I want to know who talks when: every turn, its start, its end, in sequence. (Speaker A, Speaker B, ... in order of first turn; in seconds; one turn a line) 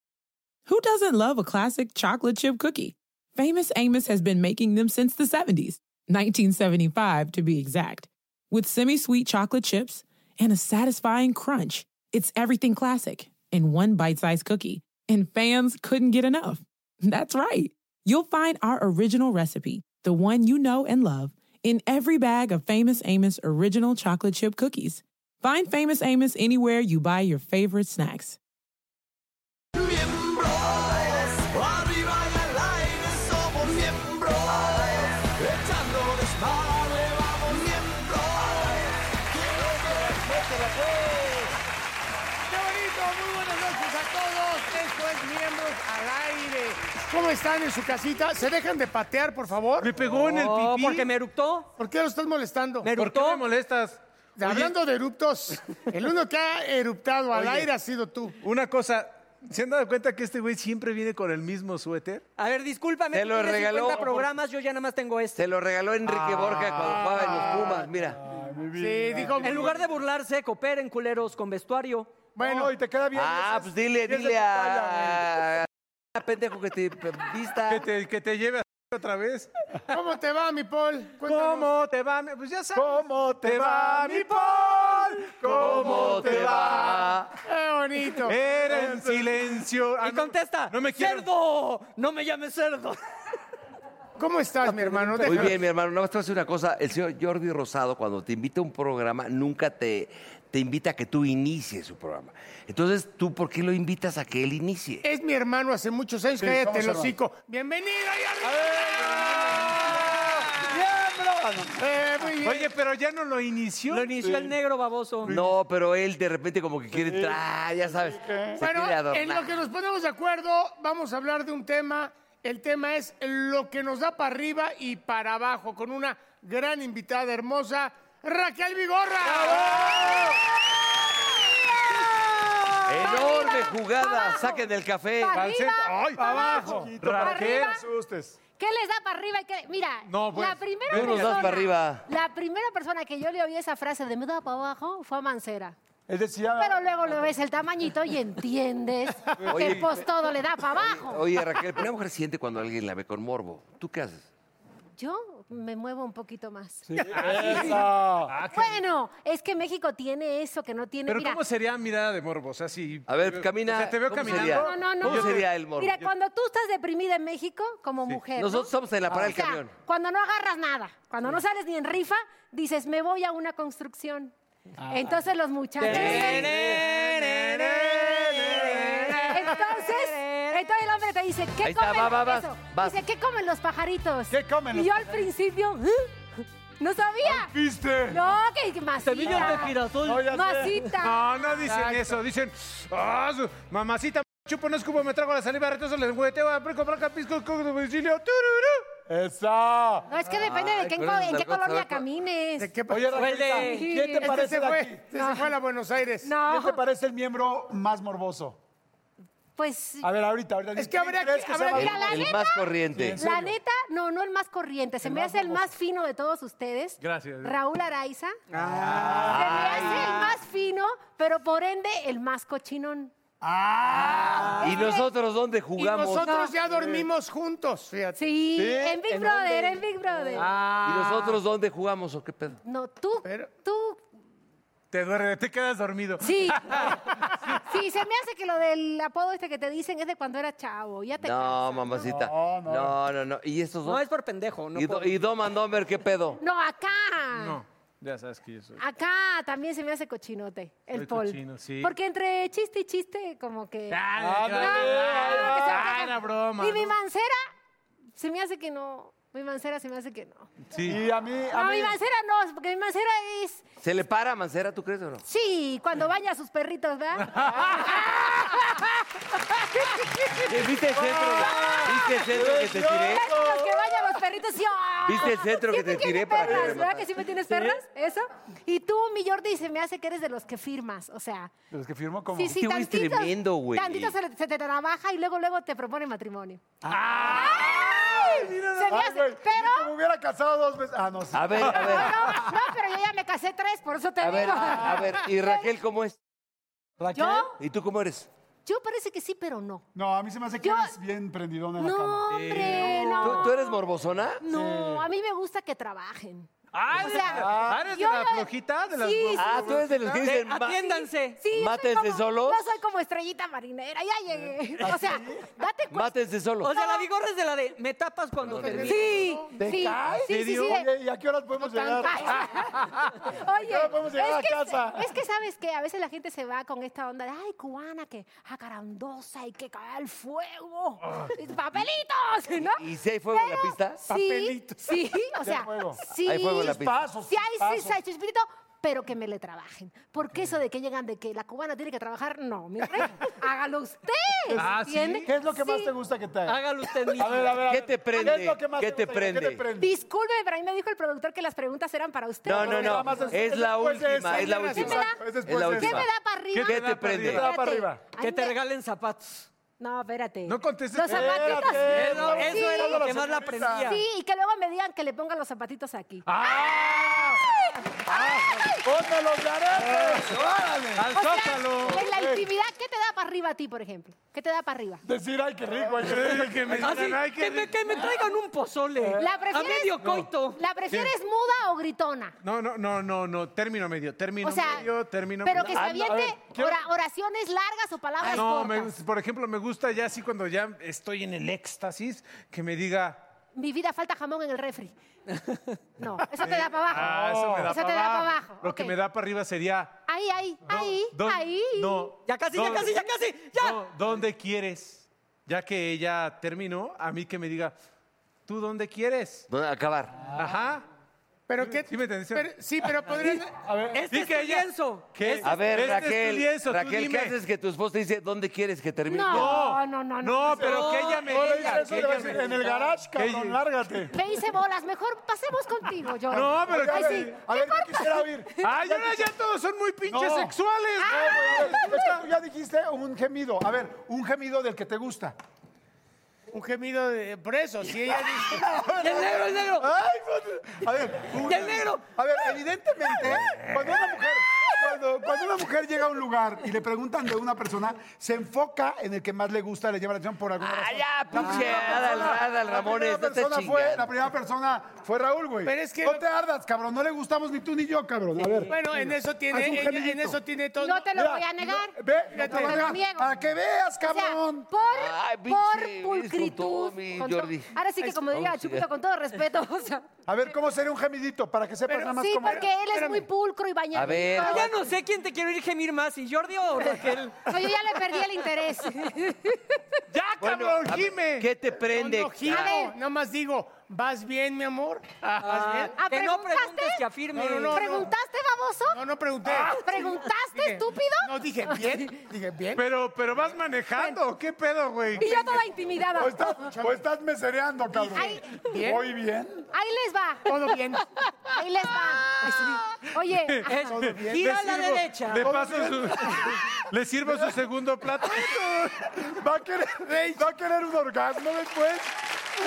Speaker A: 0.7-28.4
Speaker B: 29.8-41.5
Speaker C: 42.5-49.9
Speaker D: 49.8-51.1
Speaker E: 50.1-51.7
Speaker C: 51.8-52.9
Speaker E: 52.8-53.5
Speaker D: 52.9-54.7
Speaker C: 54.4-58.4
Speaker D: 57.3-57.7
Speaker D: 58.4-62.2
Speaker E: 62.4-65.5
Speaker F: 63.1-64.3
Speaker F: 65.4-68.2
Speaker D: 66.2-67.5
Speaker C: 67.0-67.8
Speaker G: 67.2-69.7
Speaker C: 68.8-69.8
Speaker E: 69.4-72.1
Speaker C: 72.4-72.7
Speaker G: 72.4-75.5
Speaker F: 73.2-77.9
Speaker D: 77.7-79.5
Speaker C: 79.9-81.7
Speaker D: 81.2-87.1
Speaker G: 82.7-87.0
Speaker F: 85.5-87.3
Speaker C: 87.5-88.4
Speaker D: 88.2-91.3
Speaker G: 88.7-89.2
Speaker E: 90.0-93.0
Speaker C: 94.2-95.6
Speaker D: 94.7-95.5
Speaker F: 95.2-105.0
Speaker C: 105.0-110.4
Speaker G: 106.4-107.1
Speaker G: 108.6-112.3
Speaker C: 111.8-112.7
Speaker D: 112.4-114.1
Speaker E: 113.9-115.4
Speaker G: 114.2-114.5
Speaker F: 115.3-119.6
Speaker G: 116.9-118.7
Speaker C: 118.6-130.3
Speaker G: 129.4-130.3
Speaker H: 131.9-134.7
Speaker F: 132.9-135.4
Speaker H: 135.2-137.8
Speaker D: 135.3-137.7
Speaker G: 136.2-138.4
Speaker H: 138.6-145.8
Speaker D: 140.1-141.5
Speaker F: 140.9-142.0
Speaker G: 146.1-146.8
Speaker H: 146.6-151.3
Speaker G: 149.4-149.8
Speaker F: 149.5-154.3
Speaker H: 155.0-157.8
Speaker G: 157.0-158.3
Speaker D: 157.0-158.8
Speaker H: 158.4-161.4
Speaker D: 161.1-165.5
Speaker F: 163.1-166.0
Speaker H: 164.3-174.3
Speaker F: 168.4-169.7
Speaker G: 174.8-175.2
Speaker H: 174.9-176.5
Speaker E: 175.8-180.7
Speaker F: 175.9-176.8
Speaker D: 176.0-179.5
Speaker H: 179.3-186.3
Speaker F: 181.6-183.0
Speaker G: 184.3-185.2
Speaker H: 186.8-187.5
Speaker G: 187.2-188.2
Speaker H: 188.1-189.7
Speaker E: 189.0-190.4
Speaker G: 189.3-190.8
Speaker H: 190.3-191.5
Speaker D: 191.0-198.9
Speaker C: 191.7-192.2
Speaker G: 199.1-200.1
Speaker H: 200.1-202.7
Speaker F: 200.3-202.1
Speaker C: 202.6-203.2
Speaker G: 202.9-205.0
Speaker E: 203.1-204.0
Speaker H: 203.6-204.5
Speaker C: 204.2-206.3
Speaker H: 205.1-205.5
Speaker H: 206.2-206.8
Speaker G: 206.4-208.6
Speaker H: 209.6-210.1
Speaker G: 210.0-212.3
Speaker C: 210.8-212.0
Speaker H: 211.7-218.3
Speaker F: 211.7-213.2
Speaker G: 212.9-213.6
Speaker G: 215.0-215.6
Speaker D: 217.0-217.6
Speaker E: 218.6-219.4
Speaker D: 218.7-219.2
Speaker G: 218.8-219.6
Speaker F: 219.2-220.3
Speaker H: 219.2-223.1
Speaker E: 219.9-220.2
Speaker G: 223.4-224.6
Speaker C: 224.0-224.7
Speaker E: 224.3-224.7
Speaker H: 224.6-225.1
Speaker F: 224.6-226.3
Speaker C: 225.8-228.2
Speaker H: 226.3-226.5
Speaker D: 226.7-227.1
Speaker H: 228.2-230.5
Speaker E: 228.6-231.2
Speaker F: 230.8-232.6
Speaker H: 232.7-234.0
Speaker C: 233.2-233.5
Speaker D: 234.9-237.6
Speaker H: 236.2-242.1
Speaker F: 241.2-244.0
Speaker G: 242.0-243.0
Speaker E: 243.8-245.2
Speaker F: 244.8-246.4
Speaker H: 246.4-247.6
Speaker D: 247.4-248.8
Speaker H: 248.8-257.4
Speaker D: 250.9-251.9
Speaker D: 253.9-256.9
Speaker G: 254.2-255.9
Speaker H: 258.2-260.5
Speaker D: 260.7-261.0
Speaker G: 260.8-262.0
Speaker H: 261.5-263.6
Speaker F: 263.8-265.2
Speaker H: 265.2-270.5
Speaker D: 267.3-267.9
Speaker F: 270.4-273.2
Speaker G: 270.9-274.0
Speaker H: 271.3-272.0
Speaker H: 272.9-281.5
Speaker F: 275.0-277.2
Speaker G: 276.4-276.9
Speaker G: 281.7-282.6
Speaker H: 282.4-289.9
Speaker F: 282.5-284.1
Speaker G: 286.8-292.2
Speaker D: 287.0-287.5
Speaker F: 291.3-292.2
Speaker H: 291.6-295.7
Speaker F: 294.2-296.2
Speaker G: 297.0-297.6
Speaker H: 297.1-297.6
Speaker F: 297.6-298.3
Speaker H: 298.7-299.9
Speaker G: 299.9-303.4
Speaker H: 300.6-300.9
Speaker H: 301.8-303.8
Speaker D: 302.3-303.2
Speaker F: 303.2-304.4
Speaker H: 304.4-316.1
Speaker G: 304.4-305.1
Speaker D: 306.7-309.9
Speaker G: 307.1-307.9
Speaker F: 309.4-310.9
Speaker E: 310.2-311.4
Speaker F: 311.5-312.8
Speaker G: 314.8-315.5
Speaker F: 315.9-316.7
Speaker E: 316.6-319.2
Speaker H: 316.6-317.1
Speaker F: 318.4-319.0
Speaker C: 318.6-319.5
Speaker H: 318.7-320.9
Speaker G: 319.6-323.0
Speaker D: 320.3-320.7
Speaker H: 321.6-336.7
Speaker G: 323.6-325.1
Speaker F: 332.6-334.0
Speaker C: 334.1-335.0
Speaker G: 335.4-338.0
Speaker F: 336.2-337.0
Speaker H: 337.3-345.9
Speaker G: 344.5-346.6
Speaker D: 344.5-345.3
Speaker E: 346.5-347.7
Speaker G: 347.1-349.9
Speaker F: 347.7-349.6
Speaker H: 348.1-348.4
Speaker H: 349.8-353.4
Speaker F: 352.4-357.4
Speaker G: 352.5-356.1
Speaker H: 354.3-358.6
Speaker C: 354.4-354.9
Speaker D: 356.5-357.4
Speaker G: 357.2-358.0
Speaker E: 358.2-359.5
Speaker H: 359.8-363.0
Speaker D: 360.5-362.5
Speaker G: 360.9-363.9
Speaker E: 361.8-364.0
Speaker H: 363.8-368.8
Speaker G: 366.3-367.3
Speaker D: 366.4-367.3
Speaker G: 368.8-371.1
Speaker D: 369.9-370.3
Speaker D: 371.0-372.1
Speaker H: 371.1-375.0
Speaker G: 371.9-372.5
Speaker G: 375.1-377.0
Speaker D: 376.0-377.9
Speaker E: 376.7-380.6
Speaker G: 379.0-379.4
Speaker H: 379.2-382.4
Speaker D: 380.0-380.3
Speaker D: 380.9-381.1
Speaker D: 382.4-385.9
Speaker H: 384.4-384.9
Speaker H: 385.4-389.0
Speaker G: 385.6-386.8
Speaker D: 388.2-393.2
Speaker H: 393.6-394.9
Speaker H: 396.0-398.9
Speaker D: 396.4-400.0
Speaker G: 397.0-397.7
Speaker H: 400.1-402.1
Speaker D: 400.6-403.1
Speaker E: 402.3-403.9
Speaker D: 403.6-407.8
Speaker D: 408.5-409.5
Speaker F: 409.5-410.2
Speaker D: 410.3-410.8
Speaker C: 411.5-413.5
Speaker D: 411.6-413.3
Speaker G: 413.5-414.1
Speaker E: 413.9-415.5
Speaker D: 414.1-417.4
Speaker F: 415.4-419.6
Speaker H: 419.1-421.0
Speaker D: 419.3-423.6
Speaker E: 420.6-422.9
Speaker G: 421.2-424.1
Speaker H: 424.1-428.3
Speaker D: 426.3-427.4
Speaker G: 426.4-429.3
Speaker D: 428.6-431.5
Speaker G: 430.1-435.4
Speaker H: 431.0-432.2
Speaker C: 436.5-438.7
Speaker G: 438.7-460.4
Speaker E: 439.0-439.9
Speaker E: 441.3-442.0
Speaker F: 450.6-454.1
Speaker E: 451.4-451.7
Speaker C: 455.6-456.2
Speaker E: 458.4-458.7
Speaker C: 458.7-461.1
Speaker H: 460.8-463.3
Speaker G: 461.1-464.7
Speaker C: 462.3-462.9
Speaker H: 464.0-470.1
Speaker F: 464.9-468.9
Speaker G: 470.3-472.7
Speaker C: 471.9-473.3
Speaker H: 471.9-474.9
Speaker F: 473.9-474.8
Speaker E: 474.3-477.5
Speaker H: 477.4-479.8
Speaker D: 480.1-481.5
Speaker F: 480.4-482.7
Speaker C: 481.8-485.9
Speaker H: 482.5-482.9
Speaker E: 485.4-487.8
Speaker H: 486.0-487.0
Speaker C: 487.3-488.1
Speaker H: 487.6-489.0
Speaker C: 488.9-489.8
Speaker H: 489.6-492.1
Speaker C: 490.6-492.8
Speaker D: 492.8-495.7
Speaker H: 493.9-494.2
Speaker H: 495.1-496.7
Speaker G: 496.2-499.7
Speaker C: 496.6-496.9
Speaker H: 498.0-498.7
Speaker C: 498.6-499.0
Speaker H: 499.7-500.8
Speaker C: 500.5-501.5
Speaker H: 501.4-504.0
Speaker D: 503.2-509.2
Speaker E: 503.7-505.5
Speaker C: 503.9-504.6
Speaker G: 505.4-506.3
Speaker G: 509.2-512.1
Speaker C: 510.0-510.4